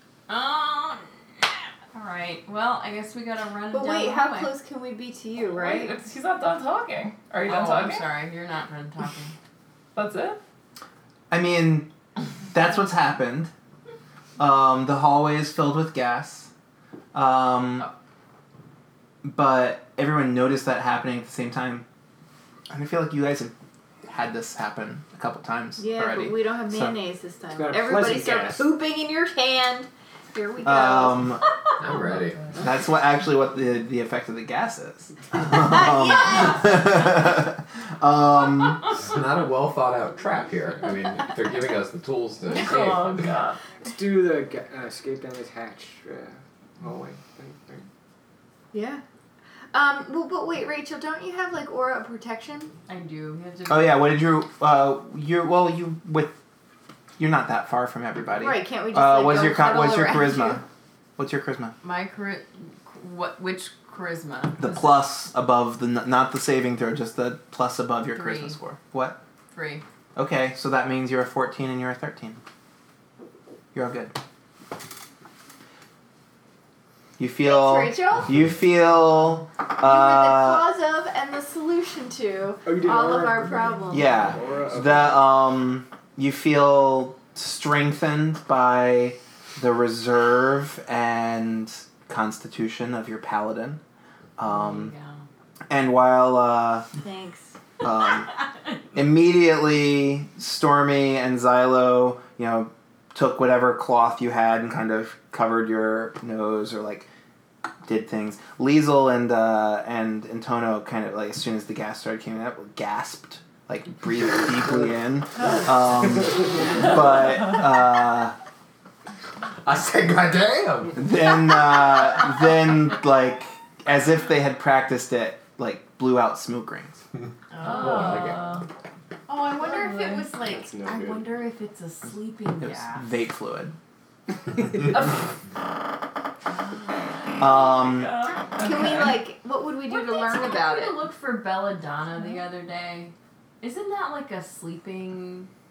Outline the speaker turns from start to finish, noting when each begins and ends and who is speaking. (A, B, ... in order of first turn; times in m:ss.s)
0:00.3-0:04.5 A
0:03.7-0:06.0 B
0:05.5-0:08.1 C
0:07.4-0:09.4 A
0:10.0-0:10.4 C
0:11.3-0:11.9 D
0:12.5-0:13.5 D
0:14.4-0:16.5 D
0:17.1-0:17.9 D
0:19.2-0:21.8 D
0:22.7-0:23.5 D
0:24.1-0:27.0 D
0:25.8-0:31.7 B
0:27.5-0:28.7 E
0:30.6-0:31.5 D
0:31.8-0:32.6 F
0:32.6-0:38.9 D
0:35.4-0:37.2 B
0:38.9-0:43.2 F
0:42.5-0:43.6 C
0:43.8-0:47.8 E
0:48.7-0:49.0 B
0:49.7-0:52.7 B
0:52.9-0:54.1 A
0:53.7-0:56.4 D
0:57.2-1:00.6 D
0:58.3-1:00.6 B
1:01.2-1:01.8 D
1:01.8-1:04.9 A
1:04.6-1:09.2 D
1:08.1-1:08.6 A
1:09.5-1:09.8 A
1:10.2-1:12.4 D
1:13.7-1:14.2 D
1:17.2-1:20.7 D
1:17.4-1:18.4 B
1:19.8-1:24.3 B
1:22.6-1:25.2 E
1:23.9-1:33.8 D
1:34.4-1:34.9 D
1:34.4-1:35.2 A
1:35.7-1:36.9 D
1:37.0-1:37.6 B
1:37.8-1:38.4 D
1:38.9-1:47.1 D
1:47.8-1:58.4 D
1:59.6-2:01.0 F
2:01.0-2:07.0 D
2:07.5-2:08.4 A
2:07.6-2:08.7 C
2:07.8-2:08.4 F
2:09.3-2:13.2 A
2:09.3-2:10.2 B
2:09.8-2:10.2 C
2:10.3-2:11.4 E
2:12.6-2:13.8 D
2:17.4-2:18.2 D
2:17.6-2:19.3 C
2:18.6-2:21.0 B
2:19.9-2:25.5 A